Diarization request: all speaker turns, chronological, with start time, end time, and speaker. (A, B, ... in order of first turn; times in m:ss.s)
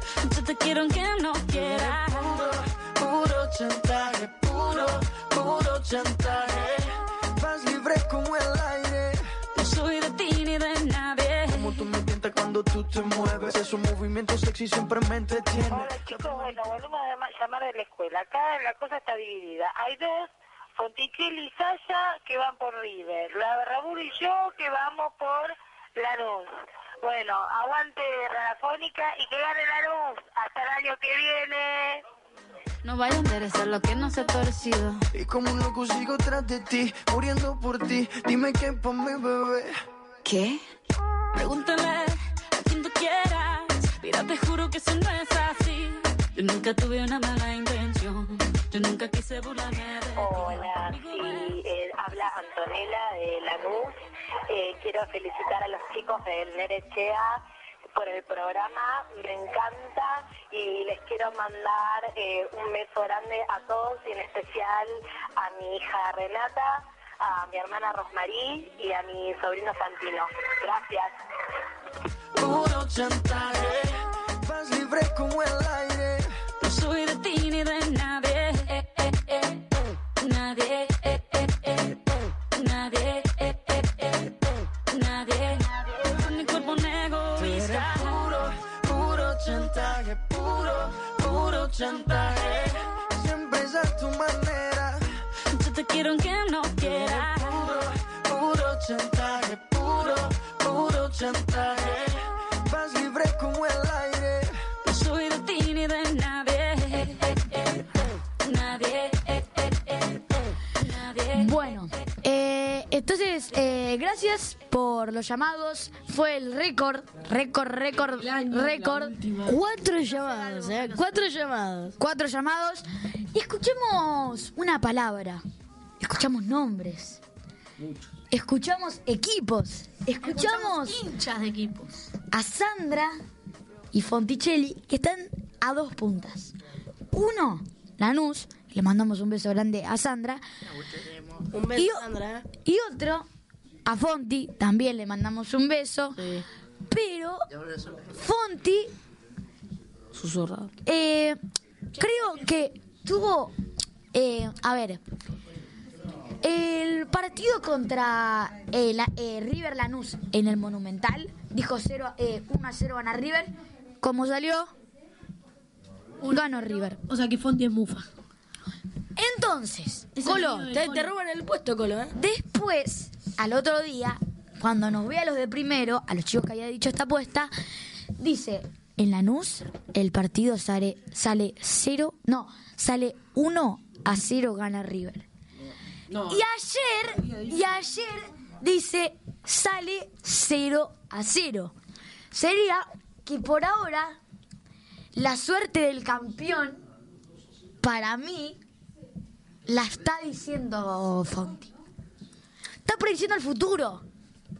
0:00.2-0:02.5 A
0:01.5-0:09.2 B
0:09.6-0:11.8 A
0:11.5-0:16.6 B
0:15.6-0:26.5 C
0:27.0-0:32.0 C
0:32.8-0:35.0 A
0:35.1-0:39.7 B
0:40.2-0:40.6 A
0:41.3-0:51.5 A
0:50.2-0:54.0 C
0:54.5-0:57.4 C
0:57.9-1:11.1 C
1:12.4-1:16.3 B
1:16.6-1:19.6 A
1:20.2-1:22.0 A
1:22.5-1:28.2 A
1:27.4-1:35.0 B
1:35.5-1:37.7 A
1:36.8-1:44.6 B
1:44.8-1:51.7 A
1:51.3-1:59.1 D
1:57.9-1:59.6 E
1:59.4-2:02.0 F
1:59.9-2:01.3 G
2:02.0-2:05.4 D
2:06.0-2:07.2 D
2:07.8-2:08.2 E
2:08.3-2:11.0 D
2:10.2-2:11.9 G
2:12.3-2:13.1 D
2:13.9-2:16.5 D
2:17.1-2:20.4 D
2:21.5-2:22.4 F
2:21.8-2:23.2 D
2:23.8-2:26.2 D
2:26.2-2:26.4 F
2:26.9-2:27.5 D
2:28.1-2:28.9 D
2:30.1-2:30.7 F
2:30.8-2:31.4 D
2:32.0-2:33.5 D
2:32.0-2:32.4 G
2:34.1-2:35.0 D
2:36.4-2:44.7 D
2:46.2-2:48.1 G
2:46.3-2:47.0 D
2:49.2-2:50.7 D
2:50.2-2:52.1 F
2:50.2-2:51.1 G
2:52.1-2:57.5 D
2:58.2-3:05.2 D
3:05.6-3:06.4 E
3:06.3-3:11.7 D
3:07.1-3:07.8 E
3:12.3-3:14.2 D
3:15.1-3:16.8 D
3:17.8-3:18.6 D
3:19.6-3:21.7 D
3:22.8-3:24.0 D